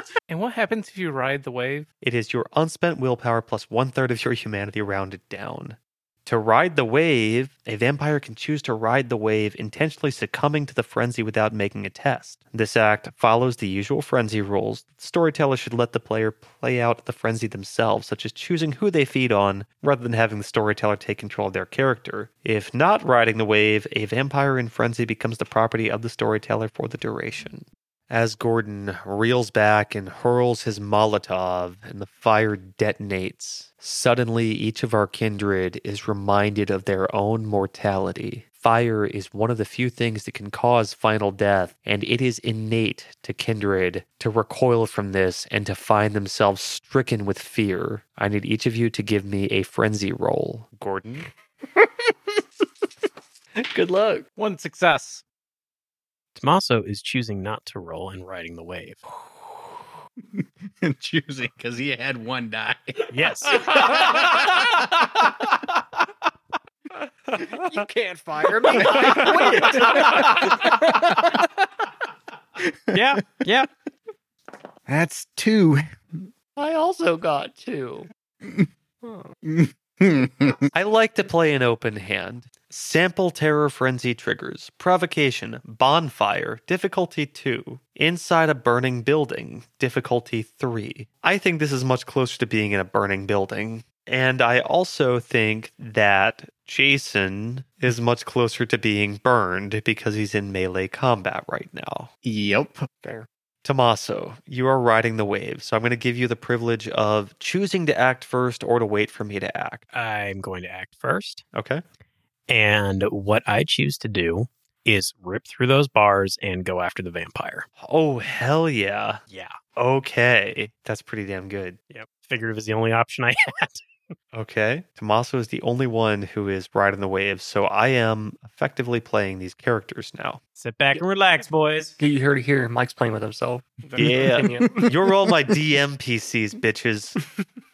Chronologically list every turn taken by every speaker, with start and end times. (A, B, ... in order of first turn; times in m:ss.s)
0:00.3-0:01.9 A
0:02.0-0:51.3 B
0:53.6-0:54.2 C
0:54.4-0:55.2 A
0:56.3-0:59.0 D
1:00.4-1:04.9 E
1:03.1-1:03.9 D
1:03.7-1:04.1 A
1:07.3-1:11.5 C
1:08.8-1:11.3 E
1:12.7-1:13.4 E
1:12.9-1:13.7 D
1:14.9-1:16.0 E
1:16.6-1:18.1 C
1:19.0-1:19.3 C
1:19.4-1:20.7 E
1:20.7-1:42.1 B
1:42.2-1:42.9 E
1:43.6-1:49.8 B
1:49.9-1:51.4 D
1:51.5-1:51.8 B
1:52.5-1:57.7 D
1:57.8-1:59.2 B
1:59.3-1:59.7 D
1:59.7-2:01.8 B
2:01.9-2:03.8 D
2:04.3-2:10.4 B
2:10.6-2:12.0 D
2:12.0-2:14.9 C
2:13.9-2:14.2 A
2:14.0-2:17.2 B
2:14.7-2:15.1 E